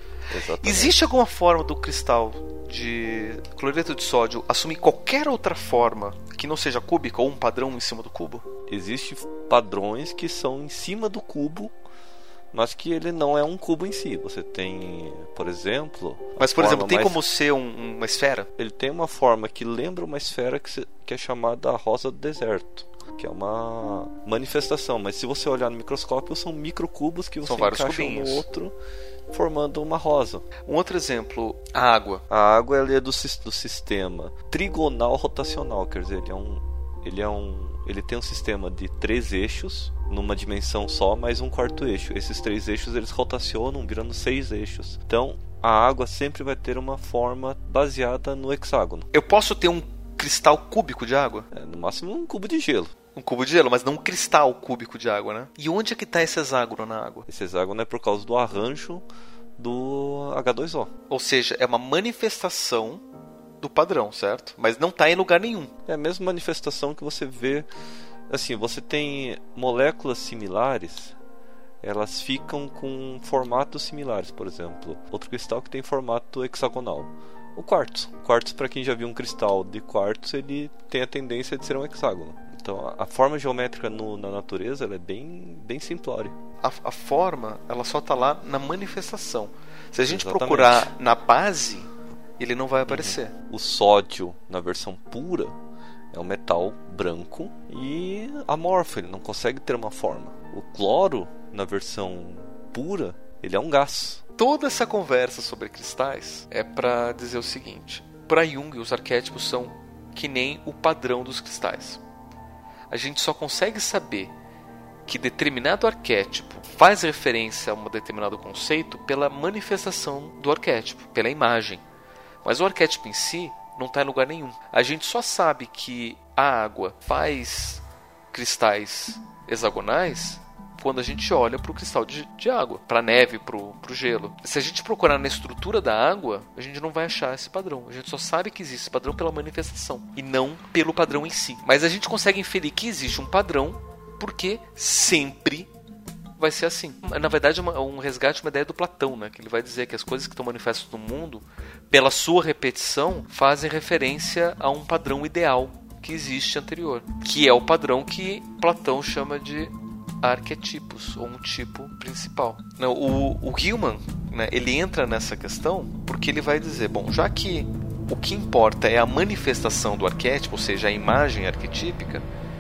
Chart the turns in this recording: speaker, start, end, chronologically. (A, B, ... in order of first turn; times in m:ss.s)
0:00.3-0:01.0 A
0:00.6-0:08.5 B
0:08.7-0:11.8 A
0:12.5-0:17.2 A
0:16.4-0:18.5 B
0:18.6-0:28.7 A
0:27.4-0:28.4 B
0:29.3-0:30.5 A
0:30.7-0:32.2 B
0:32.3-0:49.1 A
0:49.1-0:51.5 B
0:51.5-0:52.9 A
0:53.2-0:57.3 B
0:57.3-0:59.0 A
0:59.6-1:00.9 A
1:01.1-1:03.0 B
1:03.6-1:05.7 B
1:05.9-1:07.7 A
1:08.3-1:11.2 A
1:11.8-1:26.4 A
1:26.6-1:33.3 B
1:30.0-1:30.9 A
1:32.9-1:35.6 A
1:36.1-1:44.2 A
1:44.4-1:52.0 B
1:52.9-1:54.3 B
1:55.1-2:01.8 B
2:02.4-2:25.7 B
2:26.4-2:52.3 B